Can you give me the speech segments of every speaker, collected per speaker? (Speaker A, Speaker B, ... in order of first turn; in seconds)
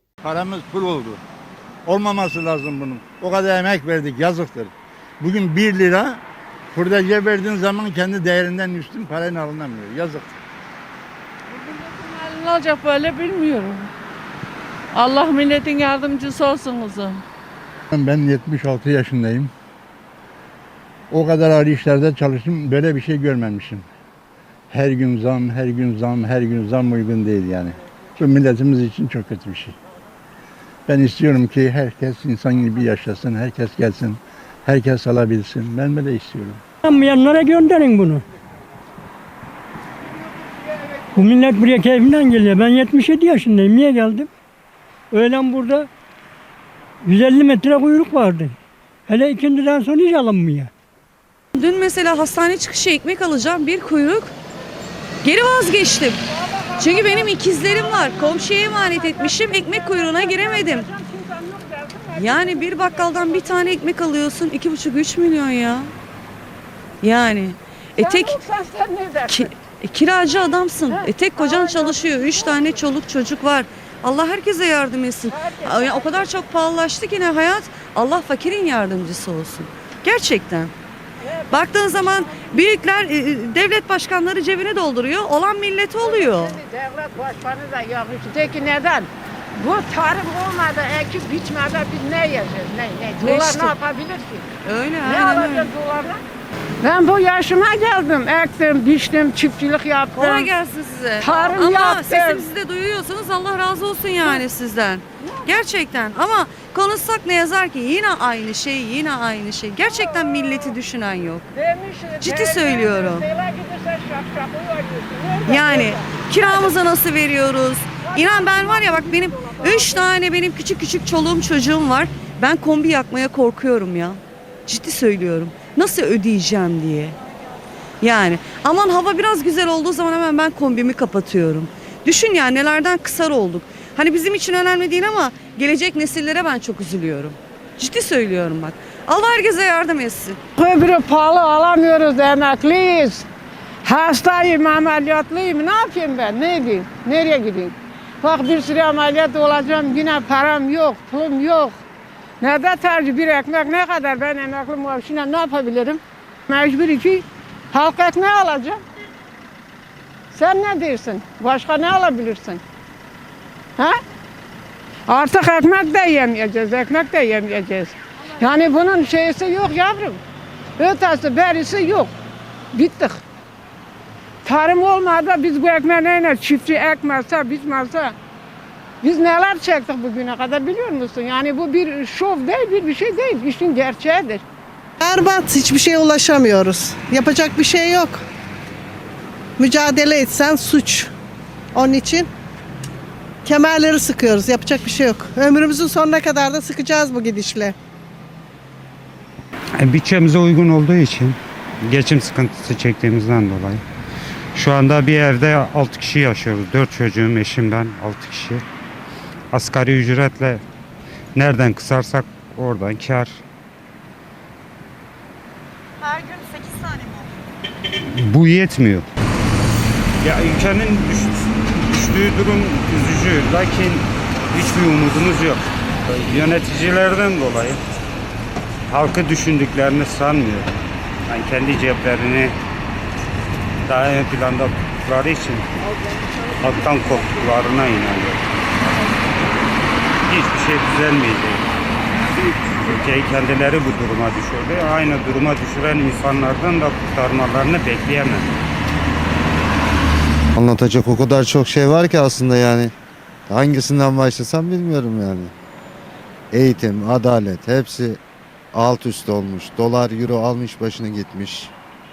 Speaker A: 0.2-1.2, 1.9-6.2, 6.7-10.3, 17.9-19.5, 21.1-23.9, 24.7-29.8, 30.9-36.6
Speaker B: 11.5-13.9, 14.9-17.2
Speaker C: 36.8-38.3, 41.1-44.3, 45.1-45.9, 47.0-48.6, 49.1-50.7
Speaker D: 51.5-54.3, 55.2-56.2, 56.8-60.9, 62.1-65.9, 67.0-68.4, 69.3-80.7, 81.5-86.6, 93.2-93.8, 94.7-95.7, 100.2-111.4, 112.2-113.2, 115.5-127.2, 128.0-140.4
Speaker E: 56.3-63.7, 68.0-69.5, 70.9-72.7, 75.3-76.3, 81.3-81.5, 86.0-94.5, 95.0-96.2, 96.8-100.5, 101.2-102.5, 105.2-105.5, 109.9-110.7, 111.5-116.8, 118.0-120.1, 140.6-143.3, 143.8-151.8, 152.4-158.8, 160.3-162.6, 165.1-170.2, 170.8-172.1, 172.7-173.2, 174.4-178.2, 179.0-184.4
Speaker F: 185.0-188.2, 189.6-191.1, 191.8-192.3, 193.4-197.8
Speaker G: 199.8-203.8, 204.6-208.6, 209.5-210.6, 211.3-213.4, 218.1-219.1, 220.2-227.8, 228.9-230.8, 231.3-232.6, 233.9-235.7, 236.6-238.4, 240.2-241.6, 242.8-248.5
Speaker H: 250.6-252.9, 253.5-255.5, 256.5-258.2, 258.7-261.7